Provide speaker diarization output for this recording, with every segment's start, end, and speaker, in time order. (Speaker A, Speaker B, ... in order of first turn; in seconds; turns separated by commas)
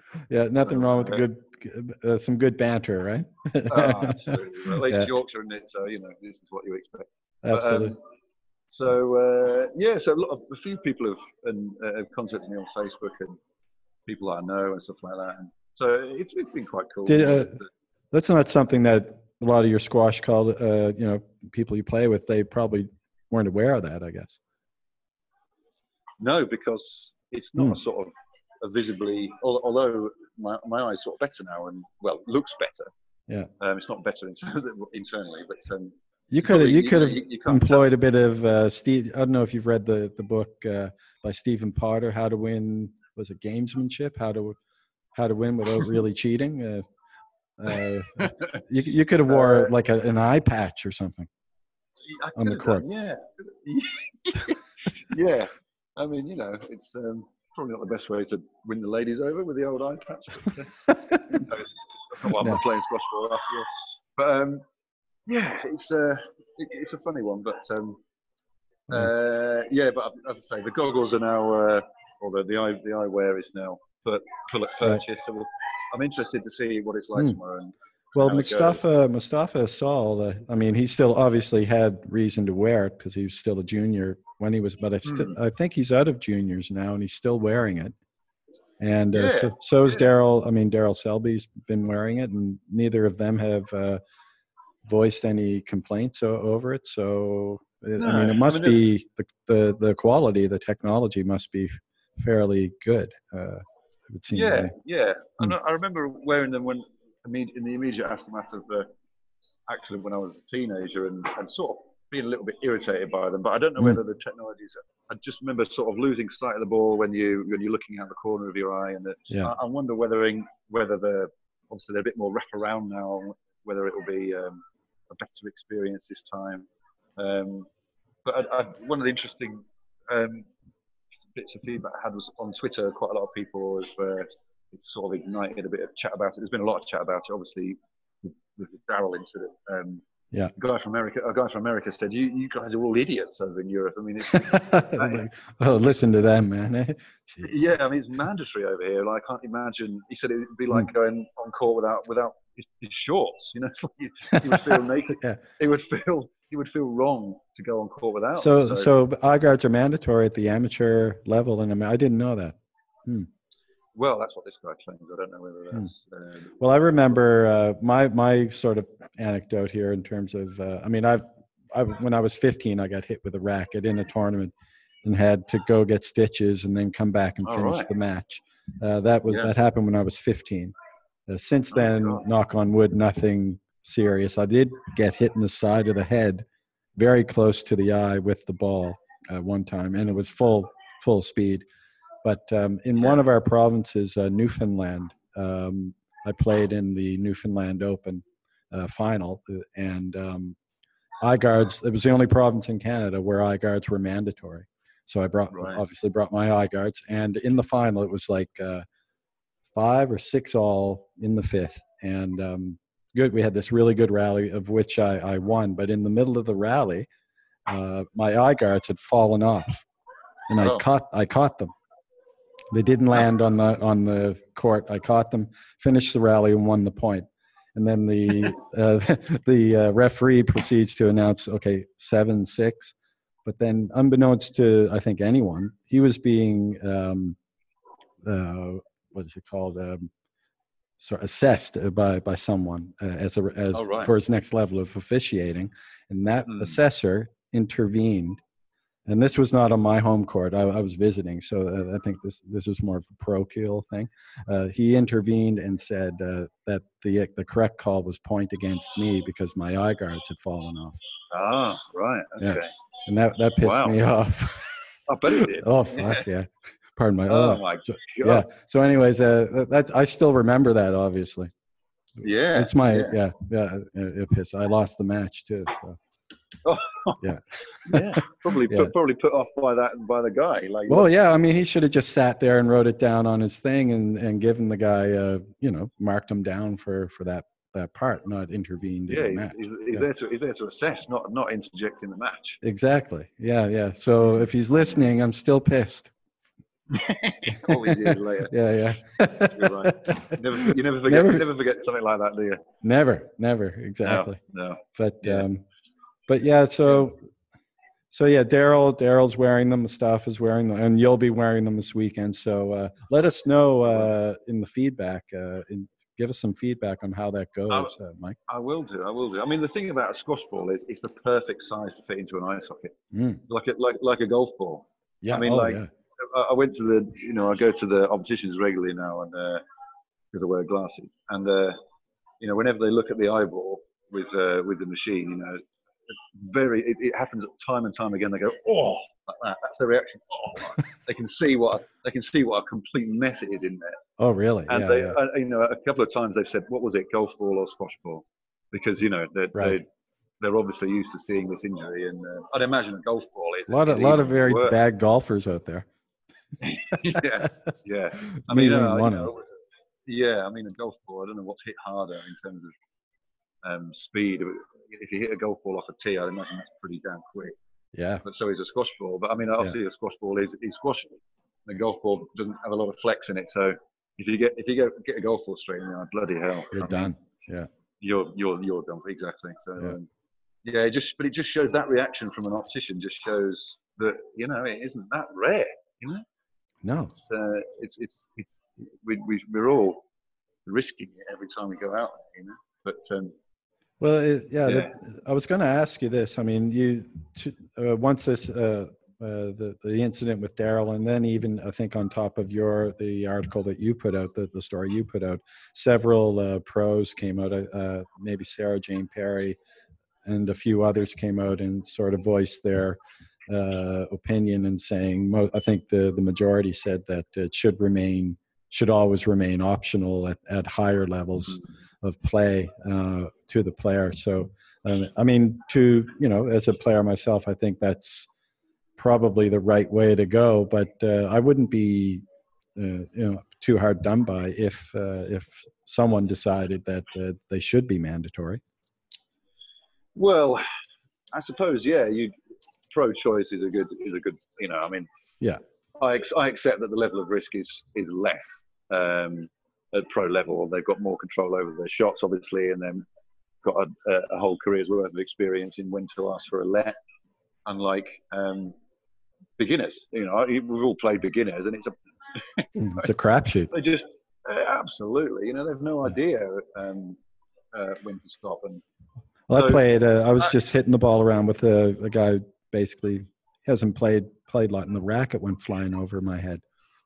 Speaker A: 0.3-5.1, Speaker B: 0.6-1.2, Speaker B: 3.7-8.0, Speaker A: 7.4-8.0, Speaker B: 8.7-13.4, Speaker B: 14.1-17.7, Speaker A: 17.1-17.6, Speaker A: 18.1-24.4, Speaker B: 26.2-32.9, Speaker B: 33.6-37.9, Speaker A: 36.3-44.6, Speaker A: 45.1-46.8, Speaker A: 47.6-51.3, Speaker B: 49.3-49.7, Speaker B: 52.0-60.7, Speaker A: 52.3-52.8, Speaker A: 60.9-61.4, Speaker B: 61.3-64.6, Speaker B: 65.3-68.0, Speaker B: 68.9-78.8, Speaker A: 78.1-87.9, Speaker B: 85.0-85.4, Speaker A: 88.8-94.0, Speaker B: 89.1-90.0, Speaker A: 94.8-104.7, Speaker B: 98.0-98.8, Speaker B: 104.3-108.9, Speaker B: 109.7-127.7, Speaker B: 128.2-130.5, Speaker B: 131.3-140.0, Speaker B: 140.5-145.2, Speaker A: 144.3-147.5, Speaker B: 147.4-158.9, Speaker A: 154.3-155.4, Speaker A: 158.4-163.3, Speaker B: 163.9-166.6, Speaker A: 166.6-174.5, Speaker A: 175.0-180.7, Speaker B: 177.4-177.9, Speaker A: 181.3-186.4, Speaker B: 181.7-182.2, Speaker A: 187.0-191.6, Speaker A: 192.2-200.6, Speaker A: 201.2-208.8, Speaker B: 205.5-205.8, Speaker A: 209.7-217.1, Speaker A: 217.7-219.8, Speaker A: 220.5-221.7, Speaker B: 220.6-220.8, Speaker A: 222.7-232.9, Speaker A: 233.4-237.3, Speaker A: 238.2-240.1, Speaker A: 241.0-248.4, Speaker B: 243.7-244.1, Speaker B: 246.5-246.8, Speaker A: 249.1-261.0, Speaker B: 261.3-262.7, Speaker A: 262.4-271.5, Speaker B: 263.6-264.0, Speaker B: 265.1-266.3, Speaker B: 267.3-268.4, Speaker B: 272.2-273.2, Speaker A: 272.5-276.0, Speaker B: 276.6-277.2, Speaker A: 277.2-278.9, Speaker B: 277.8-281.1, Speaker A: 280.9-290.0, Speaker B: 289.1-292.6, Speaker A: 292.6-296.1, Speaker B: 296.9-298.5, Speaker A: 297.6-301.4, Speaker B: 299.4-302.6, Speaker A: 302.8-304.4, Speaker B: 304.0-305.5, Speaker A: 304.9-305.6, Speaker A: 306.3-307.2, Speaker A: 308.1-318.4, Speaker B: 318.5-322.9, Speaker A: 323.1-323.4, Speaker B: 323.5-329.6, Speaker A: 325.2-325.9, Speaker B: 330.3-331.8, Speaker B: 332.4-344.0, Speaker A: 344.2-345.2, Speaker B: 344.7-349.9, Speaker B: 350.4-354.8, Speaker A: 353.7-355.9, Speaker B: 356.6-359.5, Speaker A: 358.3-359.3, Speaker B: 360.1-362.7, Speaker B: 363.6-367.5, Speaker A: 367.9-368.2, Speaker B: 368.2-377.1, Speaker A: 376.7-377.7, Speaker B: 378.0-380.1, Speaker B: 380.6-386.2, Speaker A: 386.8-387.1, Speaker B: 387.1-390.0, Speaker B: 390.6-393.3, Speaker A: 394.0-409.6, Speaker B: 394.6-394.9, Speaker A: 410.2-428.3, Speaker A: 429.0-432.2, Speaker A: 432.8-438.6, Speaker B: 440.1-440.6, Speaker B: 441.3-442.3, Speaker B: 442.9-445.1, Speaker B: 446.0-453.0, Speaker B: 453.6-456.9, Speaker B: 457.6-458.8, Speaker B: 459.6-463.1, Speaker A: 462.8-463.7, Speaker B: 463.7-467.2, Speaker B: 467.7-468.8, Speaker A: 469.5-476.6, Speaker B: 469.5-469.8